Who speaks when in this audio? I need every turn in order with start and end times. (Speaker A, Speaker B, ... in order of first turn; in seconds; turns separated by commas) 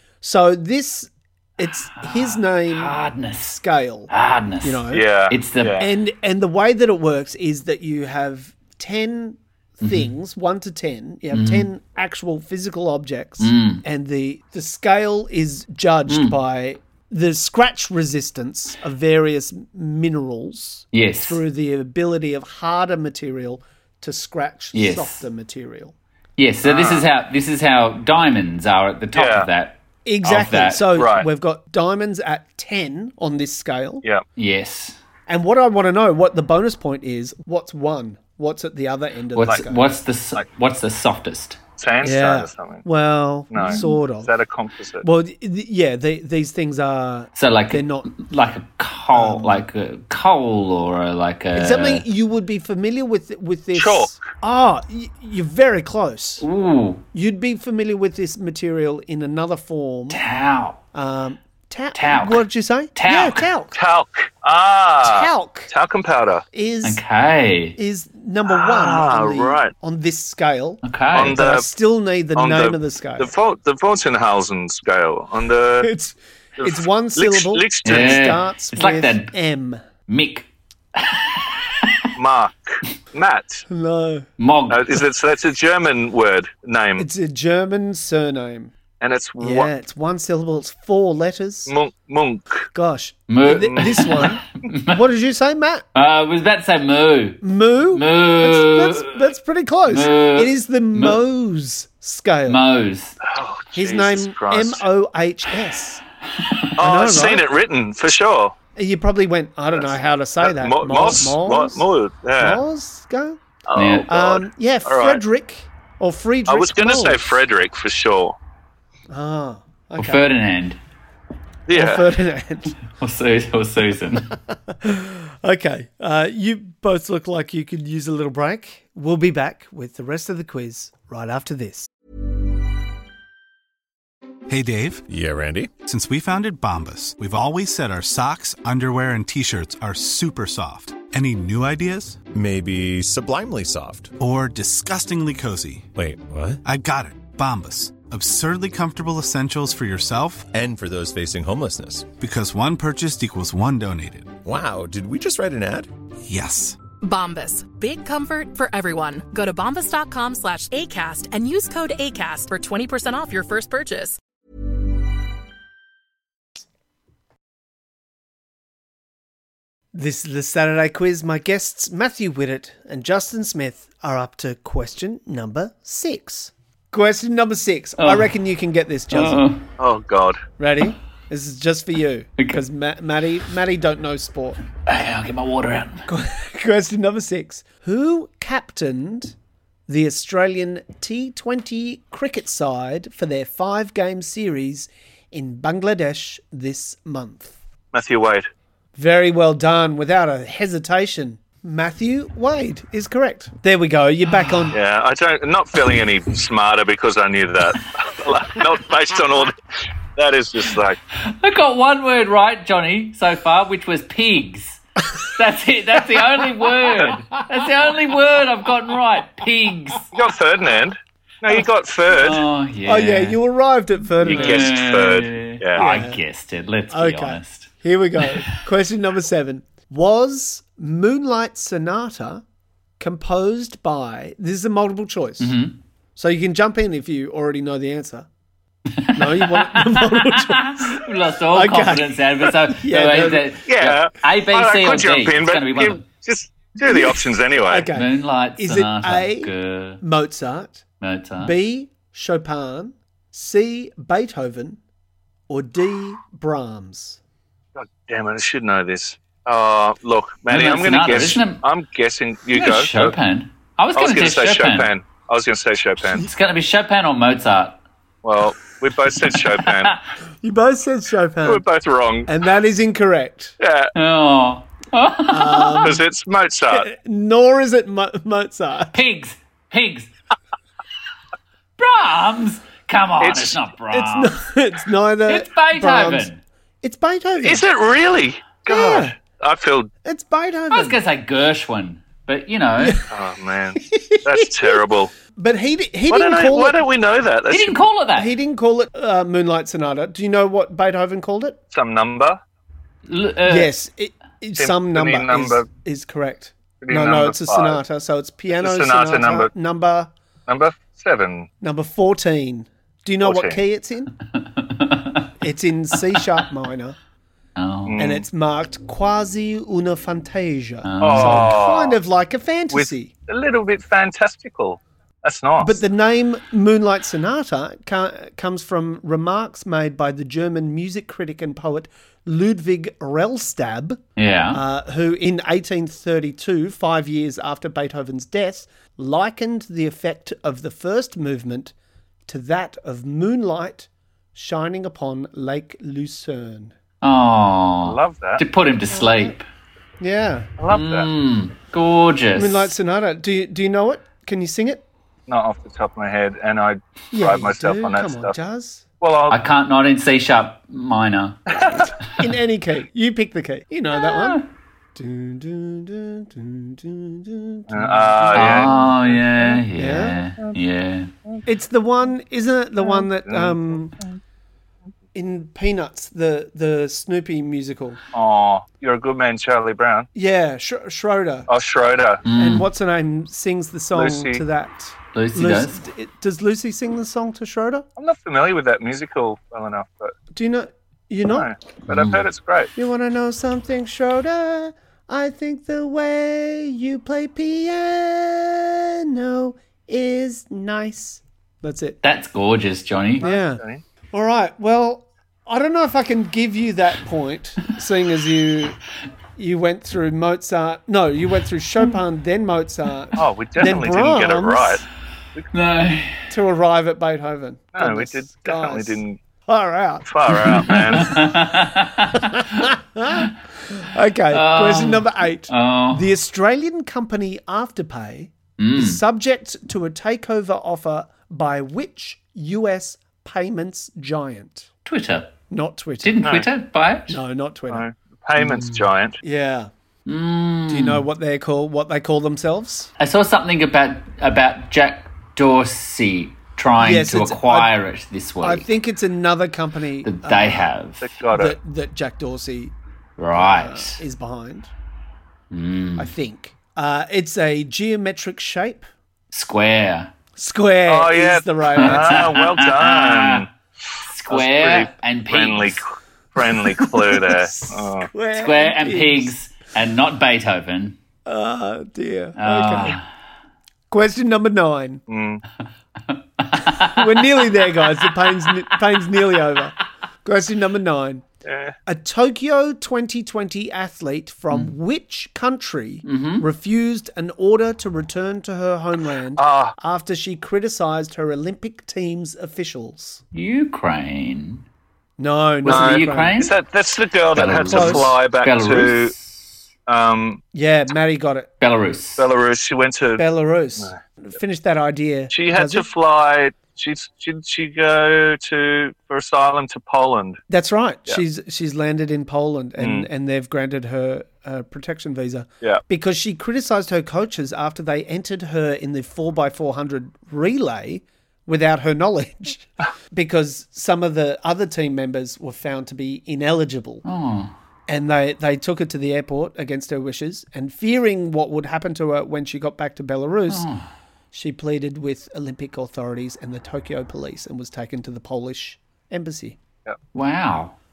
Speaker A: 0.2-4.1, Speaker B: 2.0-3.6, Speaker B: 4.1-5.8, Speaker A: 4.6-5.0, Speaker C: 4.9-5.9, Speaker A: 5.8-25.9, Speaker B: 9.8-10.1, Speaker B: 11.3-11.7, Speaker B: 13.4-13.8, Speaker B: 16.1-16.4, Speaker B: 20.9-21.4, Speaker B: 24.7-25.2, Speaker B: 26.4-30.9, Speaker C: 26.6-27.1, Speaker C: 29.1-29.5, Speaker A: 30.1-34.0, Speaker C: 30.9-31.3, Speaker B: 34.4-35.0, Speaker A: 35.3-39.9, Speaker B: 39.3-41.6, Speaker C: 41.8-42.8, Speaker A: 42.0-44.3, Speaker C: 43.5-45.0, Speaker A: 45.0-48.1, Speaker B: 47.4-52.0, Speaker A: 49.1-49.6, Speaker A: 51.5-56.4, Speaker C: 53.7-54.2, Speaker B: 56.4-57.0, Speaker A: 57.1-60.2, Speaker B: 60.1-60.8, Speaker A: 60.9-63.7, Speaker B: 61.9-63.5, Speaker C: 63.7-66.4, Speaker A: 65.0-65.7, Speaker A: 66.5-67.0, Speaker B: 66.8-67.8, Speaker A: 67.8-73.3, Speaker C: 68.5-69.7, Speaker B: 70.8-71.4, Speaker C: 71.1-71.6, Speaker C: 72.3-75.9, Speaker A: 75.8-79.8, Speaker C: 76.6-78.3, Speaker B: 77.8-79.3, Speaker B: 80.1-82.0, Speaker C: 82.2-83.7, Speaker A: 83.7-84.2, Speaker B: 84.4-85.0, Speaker C: 84.7-87.0, Speaker A: 87.0-88.7, Speaker C: 89.0-89.7, Speaker A: 89.4-91.7, Speaker C: 91.7-92.7, Speaker A: 92.7-95.8, Speaker B: 93.3-95.0, Speaker C: 93.7-94.2, Speaker B: 95.9-99.2, Speaker A: 97.4-102.6, Speaker B: 99.9-101.2, Speaker B: 102.5-103.2, Speaker C: 103.2-104.8, Speaker A: 103.7-106.0, Speaker C: 106.8-108.5, Speaker A: 106.8-107.5, Speaker A: 108.7-111.8, Speaker C: 109.7-112.6, Speaker A: 112.4-113.4, Speaker C: 113.7-115.2, Speaker B: 113.7-114.1, Speaker A: 114.1-117.3, Speaker C: 116.5-118.4, Speaker A: 119.1-120.2, Speaker B: 120.0-120.8, Speaker C: 121.7-122.1, Speaker A: 121.7-122.8, Speaker B: 122.9-124.3, Speaker A: 124.7-131.9, Speaker D: 134.5-135.0, Speaker E: 135.1-135.7, Speaker D: 135.8-142.2, Speaker E: 142.3-144.1, Speaker D: 144.2-145.9, Speaker E: 145.9-146.6, Speaker D: 146.6-150.5, Speaker E: 150.5-152.1, Speaker D: 152.2-154.3, Speaker E: 154.4-155.9, Speaker D: 156.3-156.8, Speaker F: 157.0-164.2, Speaker A: 169.9-179.4, Speaker B: 178.0-178.3, Speaker B: 179.1-179.7, Speaker C: 179.8-180.4, Speaker A: 180.6-184.6, Speaker B: 184.8-186.1, Speaker A: 186.1-189.3, Speaker A: 189.9-197.6, Speaker C: 197.9-198.5, Speaker A: 198.9-204.8, Speaker B: 204.3-204.7, Speaker C: 204.7-209.6, Speaker C: 210.1-211.0, Speaker B: 211.2-220.1, Speaker C: 220.1-222.4, Speaker B: 222.1-223.4, Speaker A: 222.8-224.7, Speaker B: 224.2-228.4, Speaker C: 224.2-225.8, Speaker A: 225.8-226.2, Speaker A: 226.9-232.4, Speaker A: 233.0-235.5, Speaker B: 235.4-235.8, Speaker A: 236.2-238.3, Speaker B: 239.0-246.1, Speaker A: 239.1-243.5, Speaker C: 243.7-247.9, Speaker A: 246.9-250.8, Speaker B: 247.9-250.0, Speaker B: 251.0-251.5, Speaker A: 251.4-254.8, Speaker A: 255.5-257.2, Speaker C: 257.8-263.1, Speaker B: 260.5-261.6, Speaker B: 262.5-264.9, Speaker C: 263.9-266.2, Speaker B: 266.2-267.8, Speaker C: 268.2-270.0, Speaker A: 270.4-271.6, Speaker C: 271.4-272.3, Speaker A: 272.2-273.6, Speaker C: 273.6-273.9, Speaker B: 273.9-275.9, Speaker A: 275.3-276.0, Speaker C: 275.8-276.9, Speaker A: 276.7-278.9, Speaker B: 278.9-280.1, Speaker B: 281.8-284.3, Speaker C: 283.2-283.6, Speaker A: 283.9-286.3, Speaker B: 285.3-286.4, Speaker A: 286.8-287.6, Speaker C: 287.4-289.9, Speaker A: 288.7-289.1, Speaker A: 290.0-291.0, Speaker B: 290.7-293.0, Speaker A: 292.8-293.1, Speaker C: 293.1-295.1, Speaker A: 293.8-296.8, Speaker C: 296.1-297.8, Speaker B: 297.5-298.3, Speaker A: 298.1-301.6, Speaker C: 301.7-302.4, Speaker B: 303.1-303.7, Speaker A: 303.4-310.1, Speaker C: 304.6-305.7, Speaker C: 306.8-307.8, Speaker C: 308.5-309.5, Speaker C: 310.5-311.5, Speaker A: 311.6-314.1, Speaker C: 313.2-313.6, Speaker B: 314.6-315.3, Speaker A: 315.4-317.0, Speaker B: 317.6-318.0, Speaker C: 317.9-318.2, Speaker A: 318.0-323.1, Speaker B: 320.8-321.5, Speaker C: 321.0-322.0, Speaker C: 322.7-325.8, Speaker A: 325.6-334.0, Speaker B: 334.2-334.6, Speaker A: 334.5-341.7, Speaker A: 342.3-346.7, Speaker B: 347.0-349.4, Speaker C: 347.8-348.4, Speaker A: 348.9-349.4, Speaker A: 350.0-350.5, Speaker C: 350.6-351.1, Speaker B: 350.7-352.7, Speaker A: 352.3-354.8, Speaker C: 355.3-358.3, Speaker A: 357.1-358.9, Speaker C: 359.0-359.4, Speaker B: 359.3-361.6, Speaker C: 361.5-361.9, Speaker A: 362.1-364.4, Speaker B: 363.9-364.4, Speaker A: 364.9-368.9, Speaker C: 367.7-369.6, Speaker B: 368.3-371.1, Speaker A: 369.7-370.2, Speaker A: 371.4-373.9, Speaker C: 372.9-374.2, Speaker A: 375.1-378.0, Speaker C: 378.1-380.1, Speaker A: 380.1-381.5, Speaker C: 381.5-382.2, Speaker B: 382.2-382.6, Speaker A: 382.3-387.9, Speaker C: 383.9-384.4, Speaker B: 385.1-385.8, Speaker C: 388.0-390.1, Speaker A: 390.3-391.5, Speaker C: 391.3-392.7, Speaker B: 391.9-392.2, Speaker A: 392.8-402.0, Speaker B: 402.0-403.2, Speaker A: 403.2-403.6, Speaker C: 403.2-403.8, Speaker A: 404.1-408.8, Speaker A: 409.4-414.8, Speaker C: 413.2-415.5, Speaker B: 415.5-416.3, Speaker A: 416.3-434.7, Speaker C: 417.7-419.2, Speaker C: 420.1-421.2, Speaker B: 420.5-423.2, Speaker B: 424.3-426.1, Speaker B: 428.6-429.0, Speaker B: 434.9-435.3, Speaker A: 435.5-436.2, Speaker B: 436.0-437.2, Speaker C: 436.2-436.5, Speaker A: 437.1-437.8, Speaker C: 437.7-439.2, Speaker B: 438.4-438.8, Speaker A: 439.2-439.7, Speaker B: 440.1-441.0, Speaker A: 440.7-442.9, Speaker B: 443.0-448.6, Speaker A: 446.8-447.7, Speaker A: 448.4-450.7, Speaker B: 450.0-451.1, Speaker C: 451.0-451.6, Speaker A: 451.3-452.7, Speaker B: 453.2-454.0, Speaker A: 453.3-454.7, Speaker B: 455.5-456.1, Speaker A: 456.0-458.9, Speaker B: 459.3-460.1, Speaker A: 460.4-462.2, Speaker C: 460.9-463.5, Speaker B: 461.8-463.4, Speaker B: 464.1-465.8, Speaker C: 464.3-468.1, Speaker A: 466.8-469.3, Speaker B: 468.3-471.0, Speaker A: 471.2-473.0, Speaker B: 472.4-473.0, Speaker A: 473.9-475.0, Speaker C: 475.1-475.4, Speaker B: 476.1-478.8, Speaker A: 476.5-481.2, Speaker C: 481.4-481.8, Speaker A: 481.9-493.2, Speaker B: 486.0-486.4, Speaker C: 489.4-489.7, Speaker B: 493.3-494.6, Speaker A: 495.2-496.4, Speaker B: 495.6-496.5, Speaker C: 495.6-499.1, Speaker B: 497.3-499.4, Speaker A: 497.6-498.1, Speaker C: 499.9-500.4, Speaker A: 500.5-501.5, Speaker B: 501.6-502.2, Speaker C: 502.2-503.2, Speaker A: 503.2-505.9, Speaker C: 505.3-510.4, Speaker A: 510.5-527.0, Speaker C: 512.8-513.1, Speaker B: 527.0-527.5, Speaker A: 527.9-533.7, Speaker B: 533.5-533.9, Speaker A: 534.3-539.6, Speaker B: 540.1-540.8